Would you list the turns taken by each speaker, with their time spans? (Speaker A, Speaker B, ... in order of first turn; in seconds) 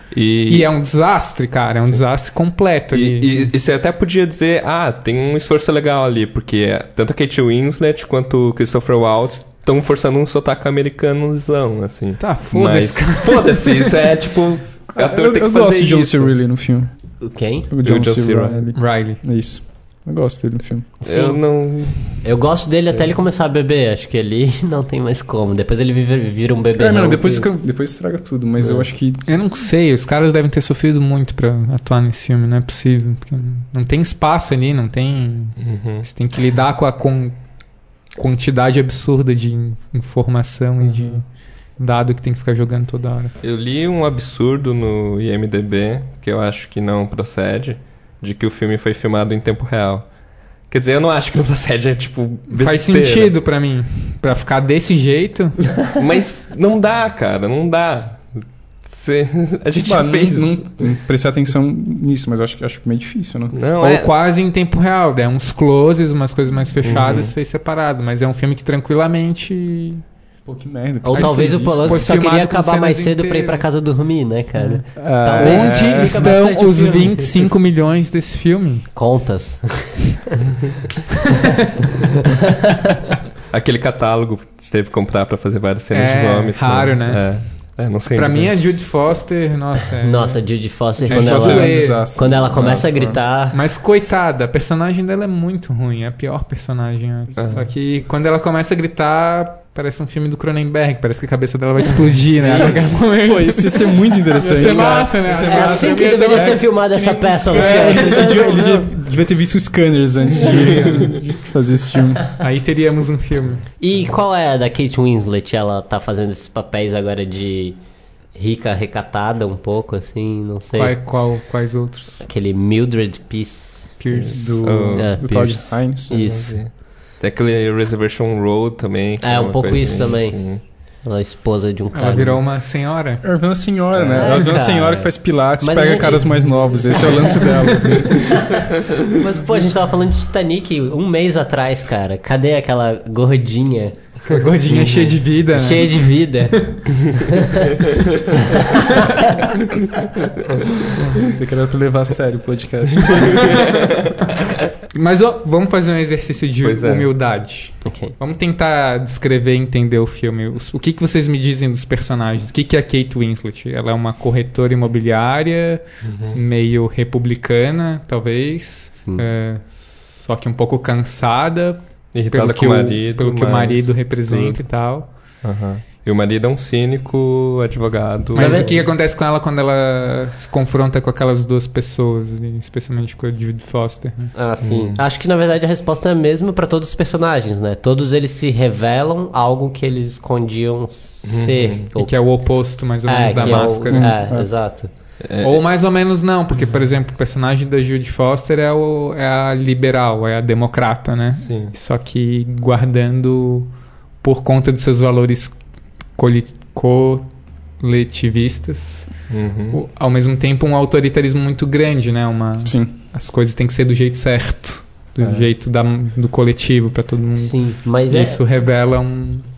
Speaker A: 0.1-0.7, 2.9-16.3, 17.8-18.6, 21.0-22.2, 35.6-36.1, 40.8-41.2, 43.4-50.1, 50.7-53.3, 55.9-60.9, 63.5-64.1, 66.8-67.3, 83.5-88.6, 92.5-92.8, 97.4-97.7, 124.1-130.6, 133.9-134.3, 144.7-145.2, 153.1-153.6, 156.6-157.1, 166.0-166.4, 172.1-174.6, 175.4-178.8, 184.6-185.0, 191.2-191.9, 193.4-193.7, 195.2-195.6, 201.4-201.8, 209.3-209.8, 215.2-215.5
Speaker B: 0.5-3.5, 12.2-13.9, 18.8-19.2, 29.3-37.4, 38.1-41.2, 41.8-43.3, 52.5-55.8, 63.8-70.0, 71.1-73.6, 75.4-78.9, 85.9-87.5, 88.1-90.4, 91.1-92.1, 93.5-108.6, 110.8-111.2, 112.4-113.7, 120.8-122.3, 124.0-124.7, 131.9-133.2, 144.3-146.8, 154.9-165.8, 166.3-175.1, 178.3-184.3, 191.9-194.2, 195.4-203.7, 204.2-205.6, 206.2-209.1, 209.7-219.5
Speaker C: 14.9-16.9, 17.7-20.9, 26.8-29.3, 59.8-63.6, 70.5-72.2, 75.0-76.4, 91.1-93.2, 102.4-112.3, 124.3-126.1, 133.2-138.4, 151.2-153.7, 193.9-194.5, 212.7-212.9
Speaker D: 17.2-17.7, 21.0-21.4, 22.2-27.5, 71.0-77.3, 78.9-80.2, 90.0-93.6, 104.6-108.9, 113.8-117.8, 118.3-121.0, 122.2-124.0, 125.0-126.6, 129.2-132.4, 134.1-137.5, 138.0-144.0, 145.5-147.6, 157.8-158.2, 178.4-178.8, 184.3-192.4, 193.1-194.9, 217.4-218.4